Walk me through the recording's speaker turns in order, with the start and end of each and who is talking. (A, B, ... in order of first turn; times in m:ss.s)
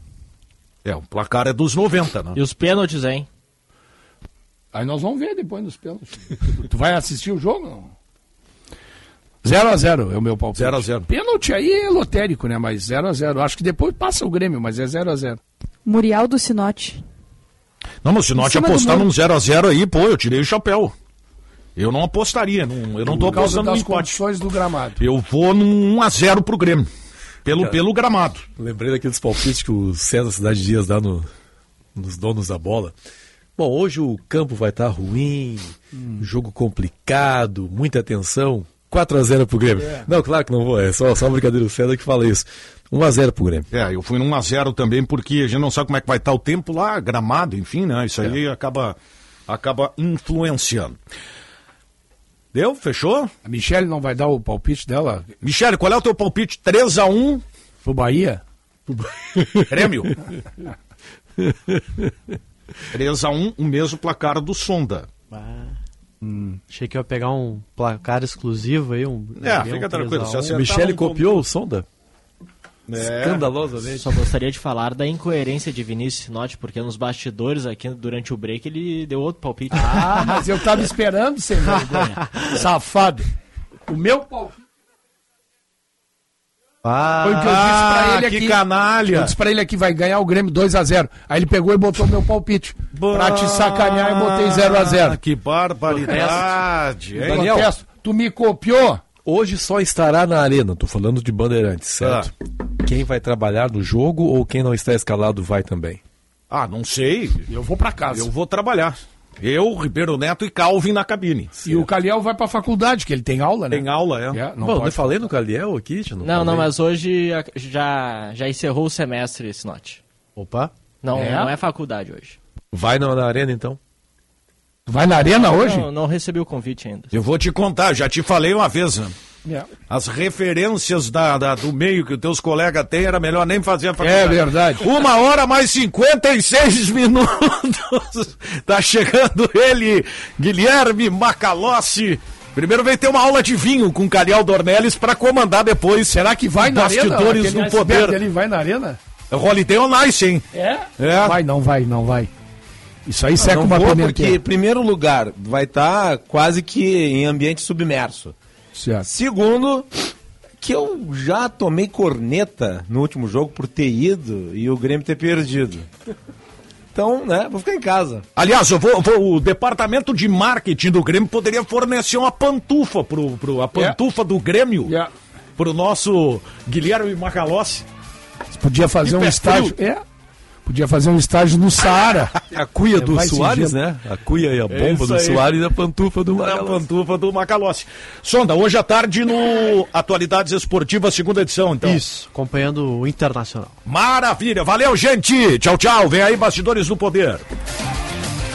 0:00.8-0:02.4 A
0:02.3-0:03.3 B
0:04.7-0:07.9 C
0:09.4-0:15.4 C
0:10.6-0:11.0 A
0:15.8-0:17.0 D
0:18.0-0:20.9 A
0:18.4-0:19.1 D
0:21.8-0:24.2 A
0:23.1-0:25.0 C
0:23.2-0:23.6 E
0:25.0-0:26.9 A
0:27.4-0:28.5 A
0:27.5-0:27.8 E
0:28.6-0:31.3 E
0:31.9-0:32.9 E
0:33.6-0:43.6 E
0:43.7-0:49.0 A
0:49.5-0:51.0 A
0:52.5-0:53.3 A
0:53.4-0:55.3 C
0:55.4-0:57.4 A
0:57.8-0:58.4 C
0:59.4-0:59.7 E
0:59.7-1:00.2 A
1:01.4-1:02.1 E
1:02.9-1:05.1 A
1:05.3-1:05.7 F
1:06.2-1:06.6 C
1:06.7-1:10.8 F
1:09.4-1:11.4 A
1:10.5-1:11.8 E
1:12.9-1:13.4 A
1:13.0-1:14.1 E
1:13.9-1:20.5 B
1:19.7-1:23.3 C
1:23.9-1:24.6 C
1:26.8-1:27.5 F
1:27.2-1:35.2 C
1:27.3-1:29.3 A
1:32.9-1:37.5 A
1:35.9-1:36.6 F
1:37.2-1:37.7 E
1:37.2-1:39.0 C
1:39.2-1:42.3 E
1:42.0-1:42.3 A
1:42.8-1:46.0 E
1:46.5-1:47.4 A
1:47.5-1:48.3 C
1:48.1-1:51.5 A
1:51.6-1:55.3 C
1:53.7-1:54.4 A
1:54.6-1:56.7 E
1:56.2-2:00.0 B
2:00.4-2:00.7 F
2:01.0-2:02.4 B
2:01.1-2:01.5 C
2:02.7-2:03.8 E
2:04.9-2:05.9 C
2:05.2-2:07.1 B
2:07.1-2:09.1 A
2:09.9-2:28.2 A
2:14.0-2:14.8 C
2:26.1-2:29.0 C
2:29.3-2:30.4 A
2:30.5-2:32.3 C
2:31.0-2:31.4 A
2:33.0-2:34.4 C
2:33.4-2:38.3 G
2:38.8-2:39.0 C
2:39.0-2:39.9 G
2:40.6-2:45.9 G
2:46.9-2:48.2 G
2:48.4-2:54.9 A
2:54.9-2:55.1 C
2:55.6-2:57.8 A
2:58.5-3:00.0 C
2:59.0-2:59.7 A
3:00.6-3:02.4 C
3:02.5-3:06.8 E
3:02.9-3:03.8 C
3:04.7-3:05.4 A
3:06.4-3:12.0 A
3:11.8-3:13.8 F
3:13.9-3:17.4 A